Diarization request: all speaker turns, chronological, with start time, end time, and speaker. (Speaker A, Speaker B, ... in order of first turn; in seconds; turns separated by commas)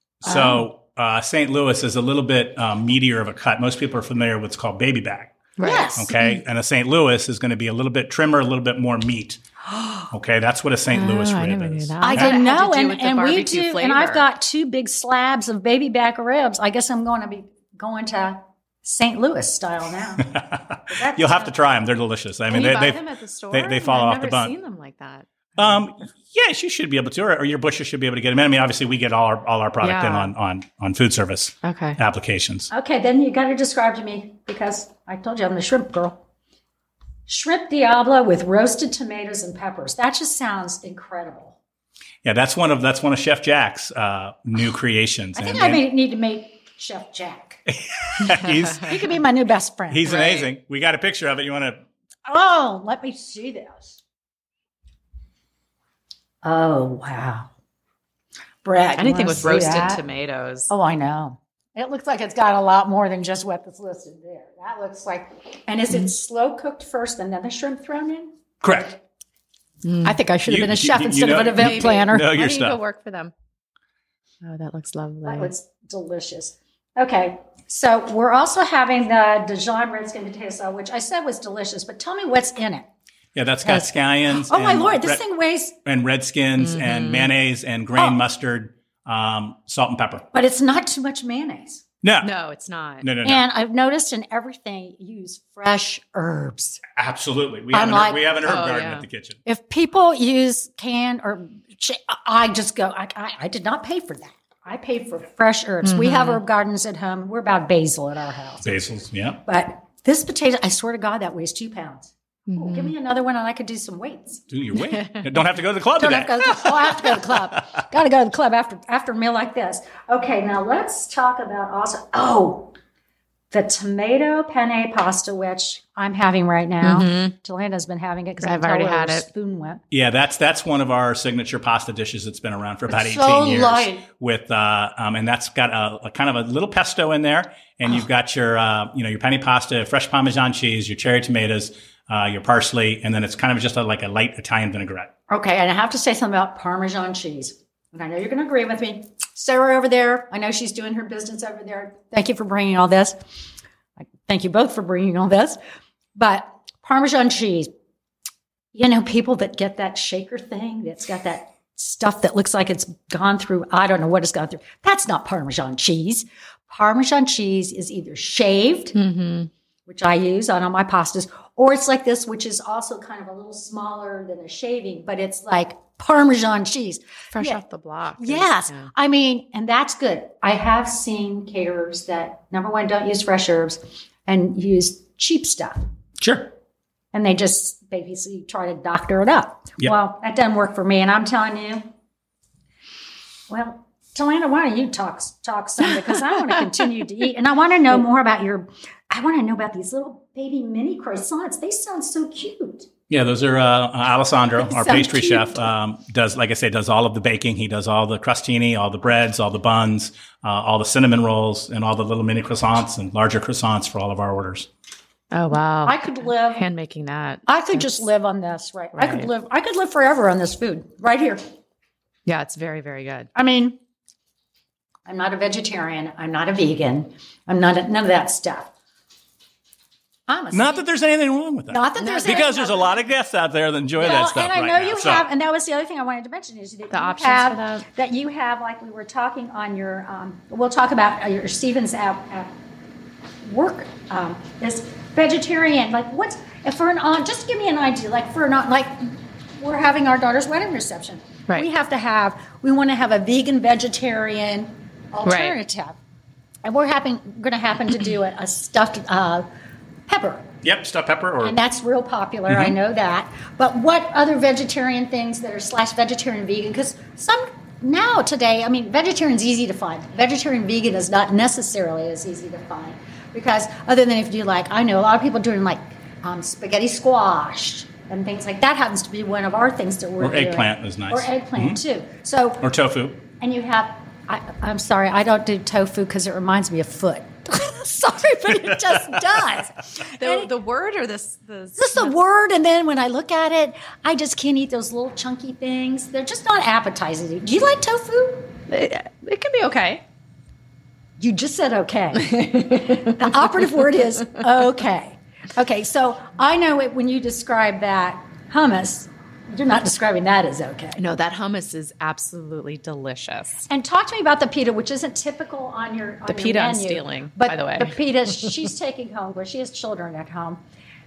Speaker A: 0.2-9.4, Speaker B: 0.3-0.7, Speaker B: 5.6-6.4, Speaker C: 5.6-6.1, Speaker C: 9.7-10.1, Speaker A: 10.1-12.3, Speaker B: 10.9-14.2, Speaker C: 12.0-20.3, Speaker A: 20.3-24.5, Speaker C: 20.9-21.6, Speaker B: 22.5-25.8, Speaker A: 25.6-32.7, Speaker B: 29.8-30.3, Speaker B: 31.6-32.0, Speaker C: 32.7-36.2, Speaker C: 37.3-41.6, Speaker A: 42.2-45.8, Speaker C: 45.4-47.6, Speaker A: 47.7-49.0, Speaker C: 48.8-50.5, Speaker A: 49.9-51.8, Speaker C: 52.3-54.0, Speaker C: 56.4-57.5, Speaker C: 58.6-60.0, Speaker B: 59.0-60.7, Speaker C: 60.7-68.3, Speaker A: 68.6-69.0, Speaker B: 69.8-70.2, Speaker C: 70.0-72.3, Speaker A: 70.5-72.8, Speaker B: 71.6-73.3, Speaker B: 74.4-75.5, Speaker C: 75.2-82.9, Speaker A: 83.3-85.2, Speaker C: 83.6-85.8, Speaker A: 85.8-90.3, Speaker B: 86.6-87.3, Speaker C: 88.0-88.2, Speaker C: 90.3-91.8, Speaker A: 92.0-92.3, Speaker B: 92.2-93.1, Speaker A: 93.0-93.4, Speaker C: 93.2-96.8, Speaker A: 97.0-99.4, Speaker C: 97.7-98.3, Speaker B: 98.4-99.1, Speaker C: 99.5-108.7, Speaker B: 105.8-106.4, Speaker A: 108.6-109.4, Speaker C: 109.5-114.5, Speaker B: 112.5-112.9, Speaker A: 114.5-117.4, Speaker B: 114.9-115.2, Speaker C: 116.0-122.7, Speaker C: 123.5-129.8, Speaker B: 126.8-127.3, Speaker B: 128.4-129.3, Speaker A: 129.9-145.1, Speaker C: 132.9-134.1, Speaker C: 145.3-153.2, Speaker C: 154.2-155.6, Speaker C: 156.2-157.7, Speaker C: 158.7-169.0, Speaker B: 168.9-169.5, Speaker C: 169.9-177.6, Speaker B: 177.3-178.9, Speaker C: 178.2-185.8, Speaker A: 186.2-186.5, Speaker C: 187.1-191.9, Speaker C: 193.5-202.9, Speaker A: 203.1-214.7, Speaker C: 204.6-205.7, Speaker B: 215.3-218.0, Speaker C: 215.8-216.7, Speaker C: 217.5-221.4, Speaker B: 218.9-219.3, Speaker B: 222.3-223.3, Speaker C: 223.3-223.8, Speaker C: 225.1-228.7, Speaker C: 230.3-230.8, Speaker A: 230.5-235.3, Speaker C: 231.7-233.0, Speaker B: 232.0-232.4, Speaker C: 234.0-242.5, Speaker B: 236.9-237.9, Speaker C: 243.4-256.0, Speaker B: 255.2-255.6, Speaker C: 256.6-259.5, Speaker C: 260.1-260.5, Speaker A: 260.6-261.6, Speaker C: 261.4-282.6, Speaker A: 262.5-262.8, Speaker A: 280.2-281.8, Speaker A: 282.6-283.2, Speaker C: 283.4-290.5, Speaker A: 288.7-289.2, Speaker B: 290.1-292.1, Speaker C: 291.8-298.6, Speaker B: 298.7-300.0, Speaker C: 301.2-311.0, Speaker B: 311.0-313.7, Speaker C: 313.7-320.6, Speaker B: 316.3-318.0